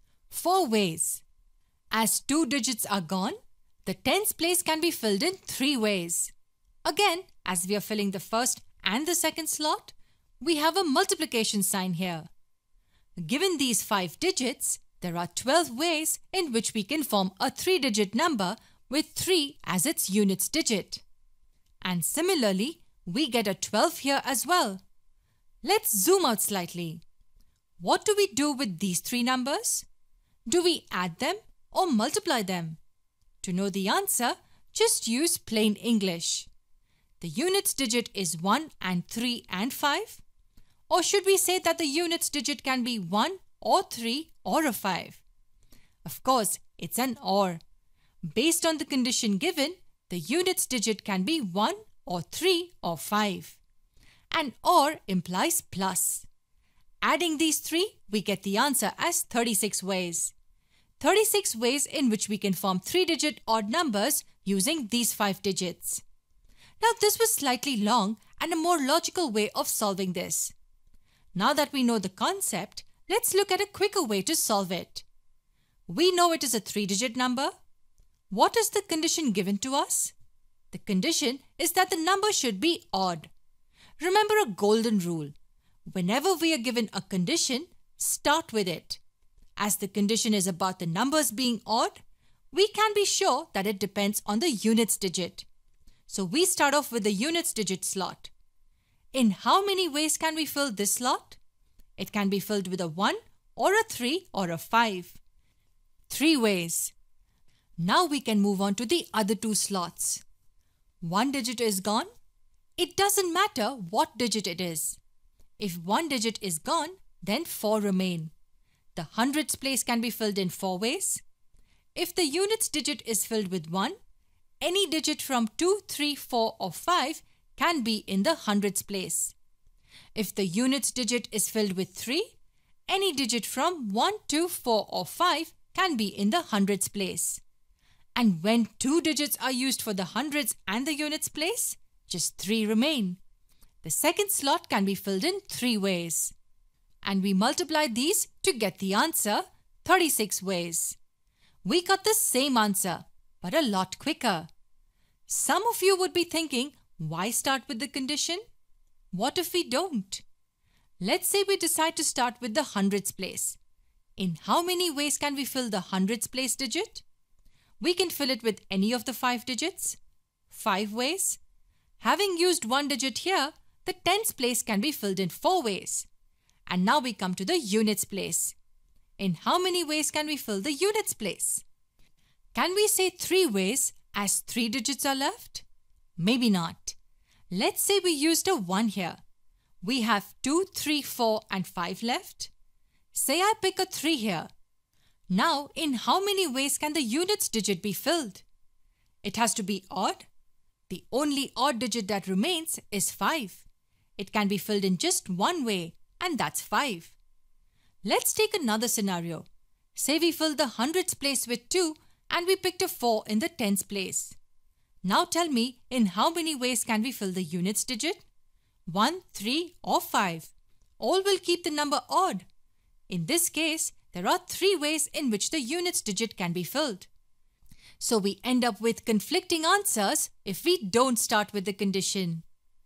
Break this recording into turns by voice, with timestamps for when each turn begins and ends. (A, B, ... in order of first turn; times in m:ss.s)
0:00.3-0:01.2 A
0:01.9-0:06.3 A
0:06.8-0:12.3 A
0:13.2-0:21.0 A
0:21.8-0:24.8 A
0:25.6-0:27.0 A
0:27.8-0:29.9 A
0:30.5-0:32.8 A
0:33.4-0:36.5 A
0:37.2-0:40.2 A
0:40.9-0:45.2 A
0:46.0-0:47.6 A
0:48.2-0:53.6 A
0:54.3-0:56.3 A
0:57.0-1:00.3 A
1:01.0-1:06.0 A
1:06.8-1:10.5 A
1:11.4-1:15.1 A
1:15.9-1:17.5 A
1:18.3-1:20.1 A
1:20.7-1:23.3 A
1:24.0-1:25.3 A
1:25.9-1:29.0 A
1:29.6-1:35.5 A
1:36.1-1:38.3 A
1:39.1-1:41.4 A
1:42.0-1:45.2 A
1:46.1-1:46.9 A
1:47.8-1:50.2 A
1:51.0-1:52.1 A
1:52.8-1:55.0 A
1:55.6-1:58.3 A
1:59.0-2:01.2 A
2:02.0-2:04.0 A
2:04.6-2:09.4 A
2:10.2-2:12.4 A
2:12.9-2:17.4 A
2:18.2-2:23.2 A
2:23.8-2:26.3 A
2:27.0-2:31.0 A
2:31.6-2:34.5 A
2:35.3-2:38.4 A
2:39.1-2:40.2 A
2:41.0-2:43.6 A
2:44.2-2:47.0 A
2:47.8-2:50.0 A
2:50.5-2:51.4 A
2:52.0-2:56.1 A
2:56.7-2:58.6 A
2:59.2-3:01.6 A
3:02.5-3:05.6 A
3:06.2-3:07.0 A
3:07.5-3:09.2 A
3:09.8-3:12.5 A
3:13.1-3:14.5 A
3:15.3-3:18.4 A
3:19.2-3:20.3 A
3:20.9-3:23.6 A
3:24.2-3:27.2 A
3:28.0-3:34.4 A
3:35.0-3:38.2 A
3:38.9-3:42.5 A
3:43.1-3:47.1 A
3:48.0-3:52.4 A